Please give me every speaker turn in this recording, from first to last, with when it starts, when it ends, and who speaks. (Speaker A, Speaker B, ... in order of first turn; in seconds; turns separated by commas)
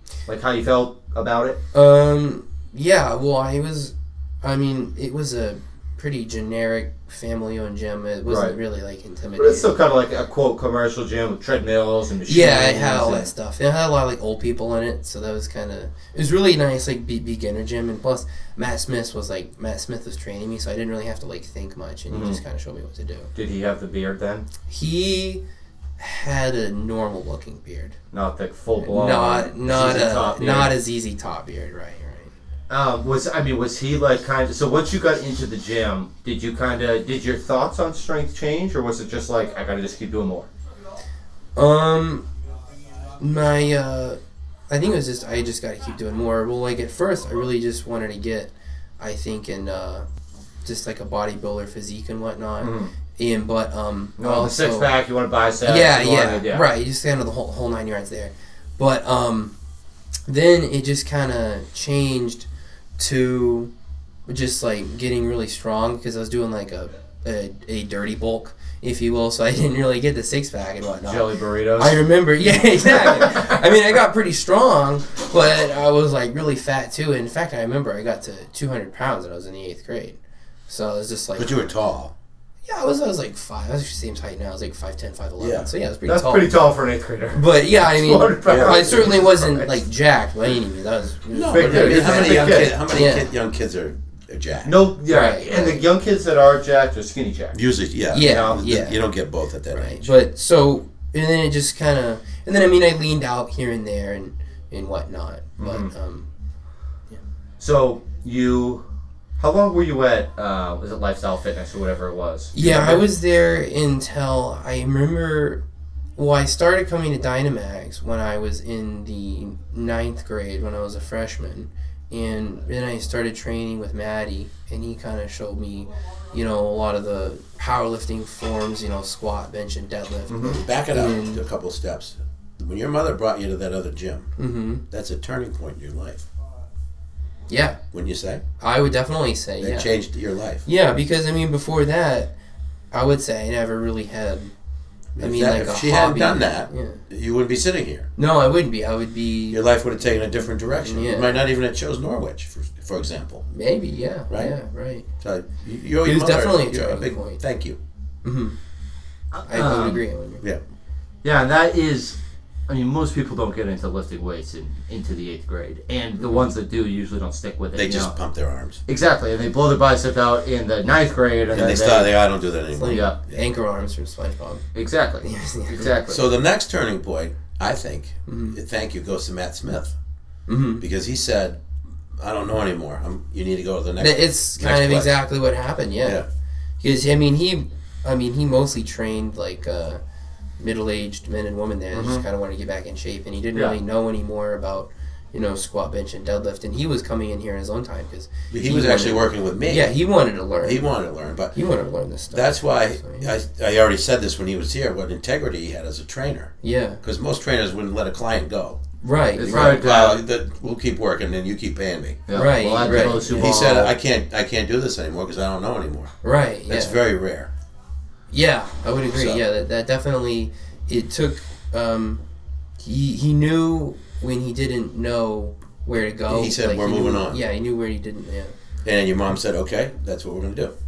Speaker A: 0.3-1.6, Speaker B: 1.7-9.7, Speaker A: 8.3-8.6, Speaker A: 9.4-13.3, Speaker B: 12.2-23.3, Speaker A: 22.1-22.4, Speaker A: 23.4-24.4, Speaker B: 24.7-25.4, Speaker B: 26.0-27.9, Speaker A: 28.1-30.7, Speaker B: 28.8-32.3, Speaker A: 32.7-40.5, Speaker B: 41.5-42.2, Speaker B: 43.1-50.0, Speaker B: 50.6-54.9, Speaker A: 52.6-52.9, Speaker A: 54.2-56.6, Speaker B: 55.6-59.5, Speaker B: 60.2-62.5, Speaker B: 63.0-63.7, Speaker B: 64.2-81.8, Speaker A: 71.1-73.6, Speaker C: 81.4-82.1, Speaker B: 82.7-86.5, Speaker C: 85.4-85.7, Speaker A: 86.0-89.8, Speaker B: 87.3-93.3, Speaker C: 88.4-89.1, Speaker C: 91.3-94.8, Speaker A: 91.5-92.8, Speaker A: 94.6-97.5, Speaker B: 95.0-95.8, Speaker C: 97.5-100.1, Speaker B: 98.1-99.0, Speaker A: 98.2-98.6, Speaker B: 99.7-106.3, Speaker A: 105.6-105.9, Speaker A: 107.6-108.8, Speaker A: 109.4-113.1, Speaker B: 112.5-115.6, Speaker B: 116.2-131.4, Speaker A: 130.3-130.6, Speaker C: 130.4-134.3, Speaker B: 134.4-134.8, Speaker C: 134.9-136.2, Speaker B: 137.5-137.8, Speaker C: 137.9-138.4, Speaker B: 138.6-140.0, Speaker C: 139.6-140.6, Speaker B: 140.6-142.3, Speaker B: 142.9-144.5, Speaker C: 145.1-148.1, Speaker B: 145.2-147.0, Speaker B: 148.2-149.6, Speaker C: 149.5-153.4, Speaker B: 150.7-151.4, Speaker B: 153.5-155.1, Speaker C: 154.3-154.5, Speaker C: 155.2-157.8, Speaker B: 156.0-157.4, Speaker B: 158.2-158.6, Speaker A: 159.3-160.0, Speaker B: 159.4-160.4, Speaker A: 161.2-168.1, Speaker C: 167.7-168.8, Speaker A: 168.9-172.1, Speaker C: 171.5-173.4, Speaker B: 172.7-174.6, Speaker A: 172.9-173.2, Speaker A: 174.7-176.2, Speaker B: 175.2-175.9, Speaker C: 176.1-179.9, Speaker B: 178.3-178.6, Speaker B: 180.5-180.8, Speaker C: 180.8-181.6, Speaker C: 182.2-185.2, Speaker B: 184.0-186.2, Speaker B: 186.8-190.0, Speaker B: 190.6-200.9, Speaker A: 191.9-192.2, Speaker C: 198.5-200.0, Speaker C: 200.6-201.6, Speaker B: 201.5-203.3, Speaker C: 202.3-208.8, Speaker B: 206.6-207.0, Speaker B: 209.0-209.9, Speaker A: 209.3-210.2, Speaker C: 209.4-212.2, Speaker A: 212.3-213.9, Speaker B: 212.3-213.8, Speaker C: 212.8-216.1, Speaker B: 216.2-217.0, Speaker C: 216.7-217.5, Speaker B: 218.3-222.2, Speaker C: 219.1-219.4, Speaker B: 222.8-228.5, Speaker C: 226.3-227.4, Speaker C: 228.8-230.7